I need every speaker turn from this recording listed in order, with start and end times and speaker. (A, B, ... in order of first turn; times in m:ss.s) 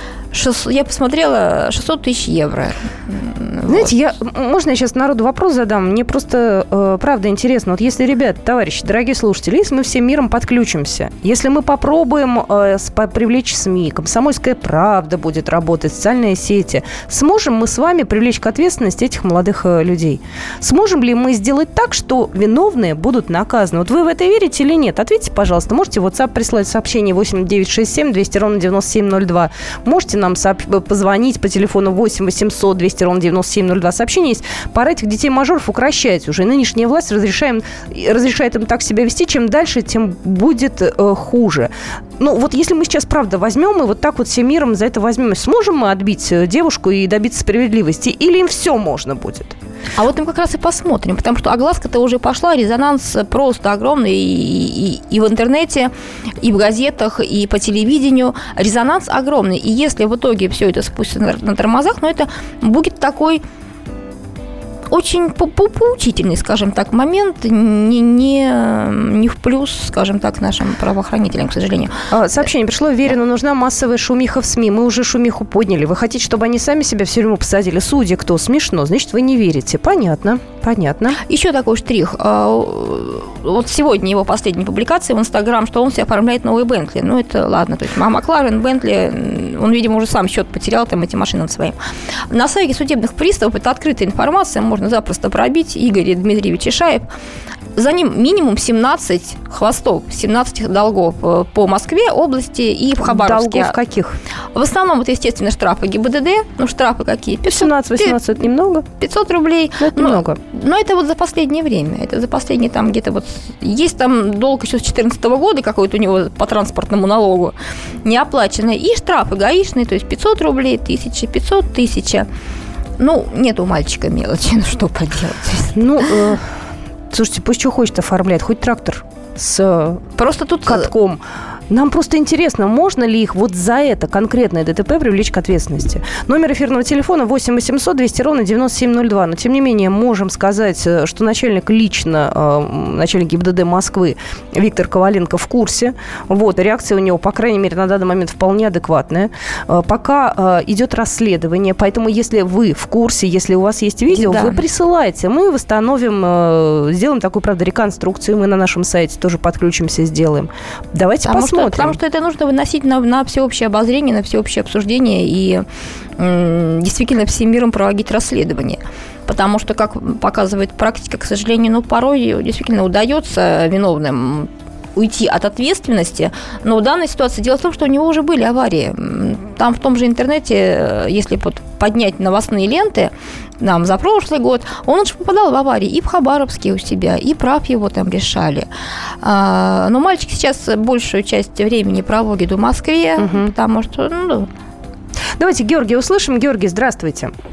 0:00.3-0:03.9 A
0:03.6-0:49.5 B
0:50.0-1:03.4 A
1:04.9-1:12.5 A
1:12.1-1:21.2 B
1:21.2-1:31.8 A
1:32.3-1:37.1 A
1:37.7-1:43.8 A
1:43.0-1:44.2 B
1:44.5-1:48.2 A
1:47.4-1:48.8 B
1:49.0-2:02.3 A
1:49.8-1:50.4 B
2:03.0-2:06.2 A
2:05.7-2:06.5 B
2:07.1-2:10.0 B
2:10.2-2:10.9 A
2:10.6-2:42.0 B
2:34.1-2:34.6 A
2:41.2-2:45.6 A
2:46.2-3:08.7 A
3:09.2-3:14.5 A
3:13.2-3:13.5 B
3:15.4-3:17.3 B